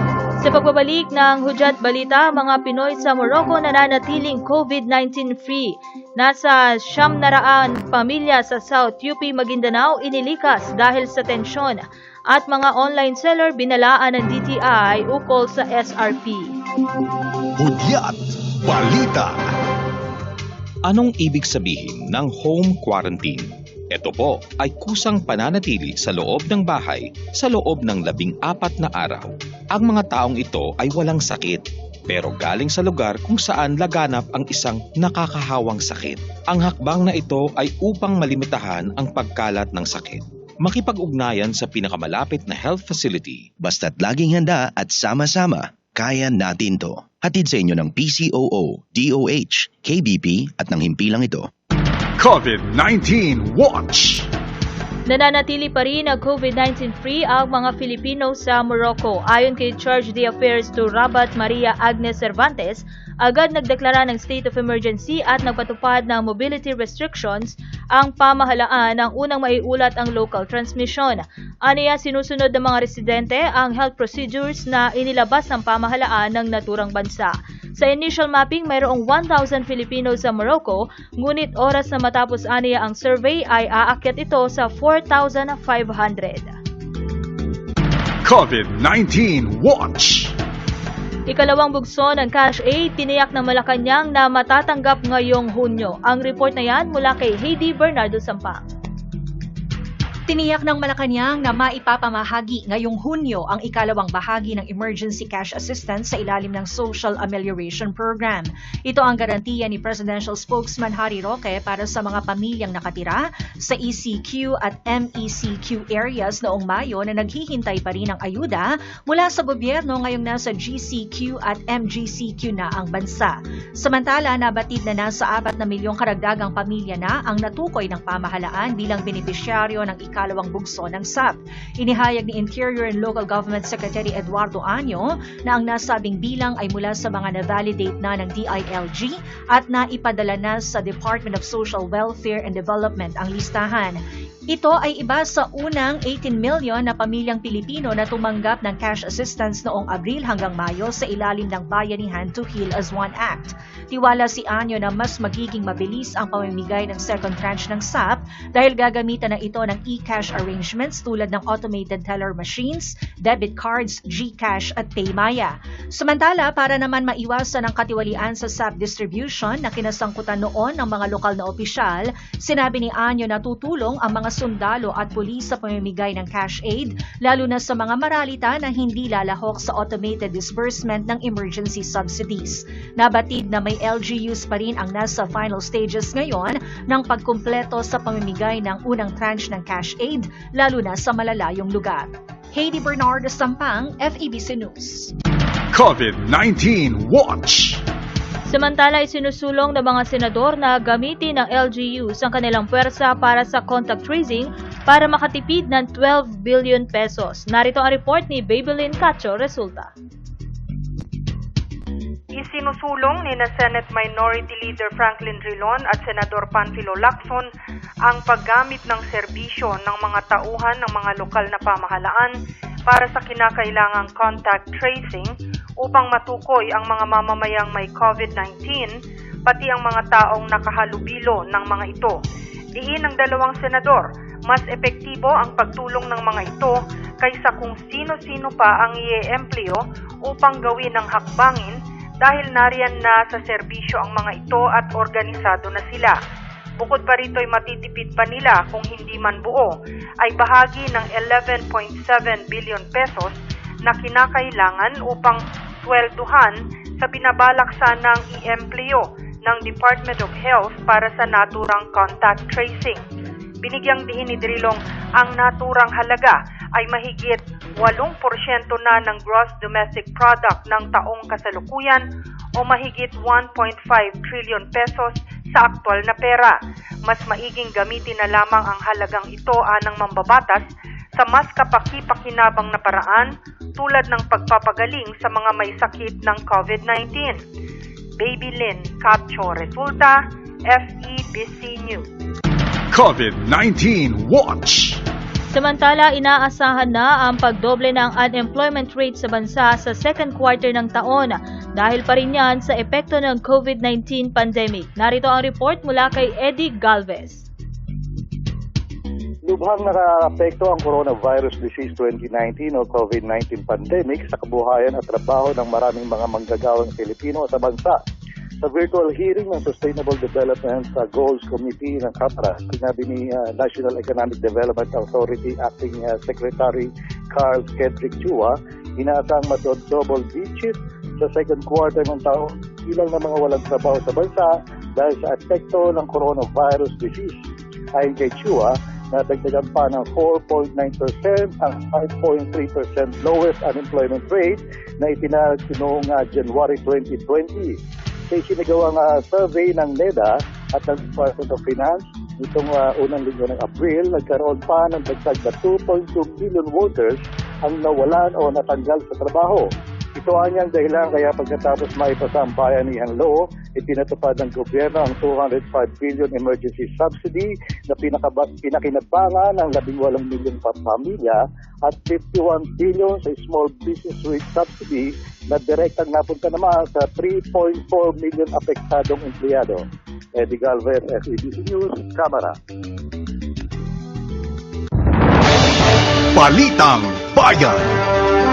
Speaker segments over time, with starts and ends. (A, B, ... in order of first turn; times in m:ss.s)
0:00.4-0:16.5 A
0:17.6-0:19.3 B
0:20.9-0:43.5 C
0:43.6-0:51.5 D
0:52.2-0:54.3 B
0:55.1-1:26.5 A
1:28.2-1:30.3 B
1:31.3-1:38.6 A
1:40.3-2:24.0 E
2:24.5-3:15.1 E
3:15.7-3:17.8 B
3:18.5-3:29.9 A
3:32.3-3:37.5 F
3:38.0-3:42.4 F
3:42.9-3:48.9 F
3:49.4-3:52.2 F
3:52.7-4:06.2 F
4:06.8-4:13.3 F
4:13.8-4:23.0 F
4:23.6-4:32.0 F
4:32.6-4:36.6 F
4:37.1-4:47.4 F
4:48.2-4:52.0 F
4:52.9-4:55.0 B
4:55.5-5:07.4 A
5:09.5-5:18.0 G
5:18.6-5:37.4 G
5:37.9-5:47.8 G
5:48.3-5:59.6 G
6:00.2-6:19.8 G
6:20.3-6:22.5 G
6:26.3-6:27.8 B